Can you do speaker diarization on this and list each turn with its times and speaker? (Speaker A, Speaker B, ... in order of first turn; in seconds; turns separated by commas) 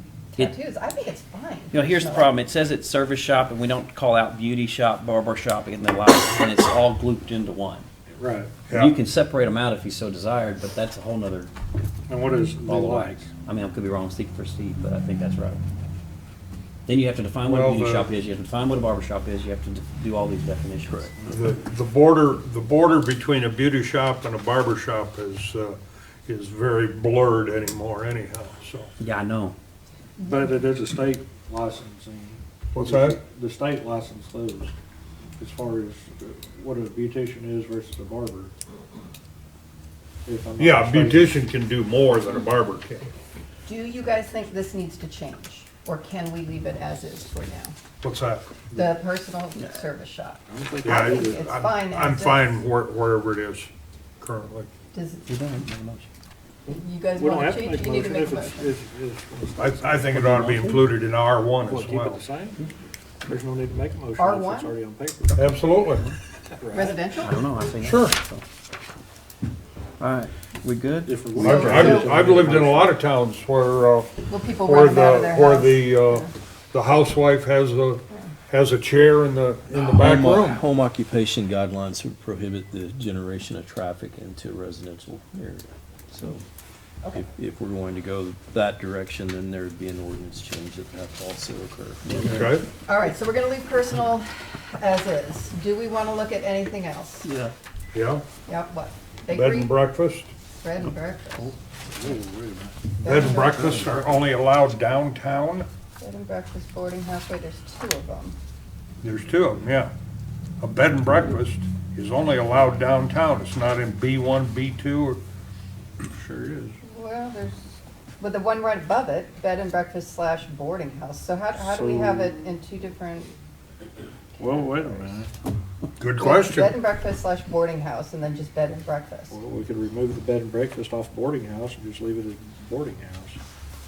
Speaker A: 0.3-2.3, Speaker B: 1.7-7.9, Speaker C: 8.1-8.6, Speaker D: 8.7-9.0, Speaker B: 8.7-11.5, Speaker C: 12.1-13.3, Speaker B: 12.7-15.6, Speaker B: 16.9-21.1, Speaker D: 17.4-18.1, Speaker D: 21.3-28.9, Speaker B: 29.0-29.6, Speaker A: 30.2-30.5, Speaker C: 30.2-34.7, Speaker D: 32.7-33.2, Speaker C: 35.4-38.5, Speaker C: 40.2-41.4, Speaker D: 40.6-43.1, Speaker A: 43.7-47.8, Speaker D: 48.0-48.5, Speaker A: 48.7-52.6, Speaker C: 50.5-51.5, Speaker D: 50.8-54.7, Speaker A: 54.9-55.3, Speaker B: 55.3-56.1, Speaker A: 56.7-58.7, Speaker C: 57.2-60.2, Speaker D: 59.6-62.2, Speaker B: 60.1-60.9, Speaker C: 61.7-62.6, Speaker C: 63.3-65.5, Speaker A: 64.2-64.7, Speaker D: 65.4-66.1, Speaker C: 66.6-67.0, Speaker A: 66.7-67.4, Speaker B: 67.2-68.4, Speaker D: 67.8-68.2, Speaker B: 70.0-72.0, Speaker C: 71.0-73.0, Speaker D: 71.4-80.6, Speaker A: 71.4-72.3, Speaker A: 74.3-76.3, Speaker E: 79.7-86.4, Speaker E: 87.1-92.4, Speaker B: 92.0-92.5, Speaker D: 92.2-92.7, Speaker A: 92.8-97.3, Speaker D: 97.9-98.2, Speaker A: 98.5-99.8, Speaker D: 99.3-100.3, Speaker A: 100.6-101.5, Speaker B: 100.8-101.5, Speaker C: 101.9-102.8, Speaker A: 103.0-103.8, Speaker D: 103.0-105.7, Speaker A: 106.0-108.4, Speaker D: 109.0-109.9, Speaker D: 110.6-115.2, Speaker C: 116.0-116.8, Speaker A: 116.8-123.3, Speaker C: 121.6-122.4, Speaker C: 124.4-125.3, Speaker A: 124.5-125.2, Speaker D: 126.0-126.8, Speaker A: 126.2-129.4, Speaker C: 129.3-133.4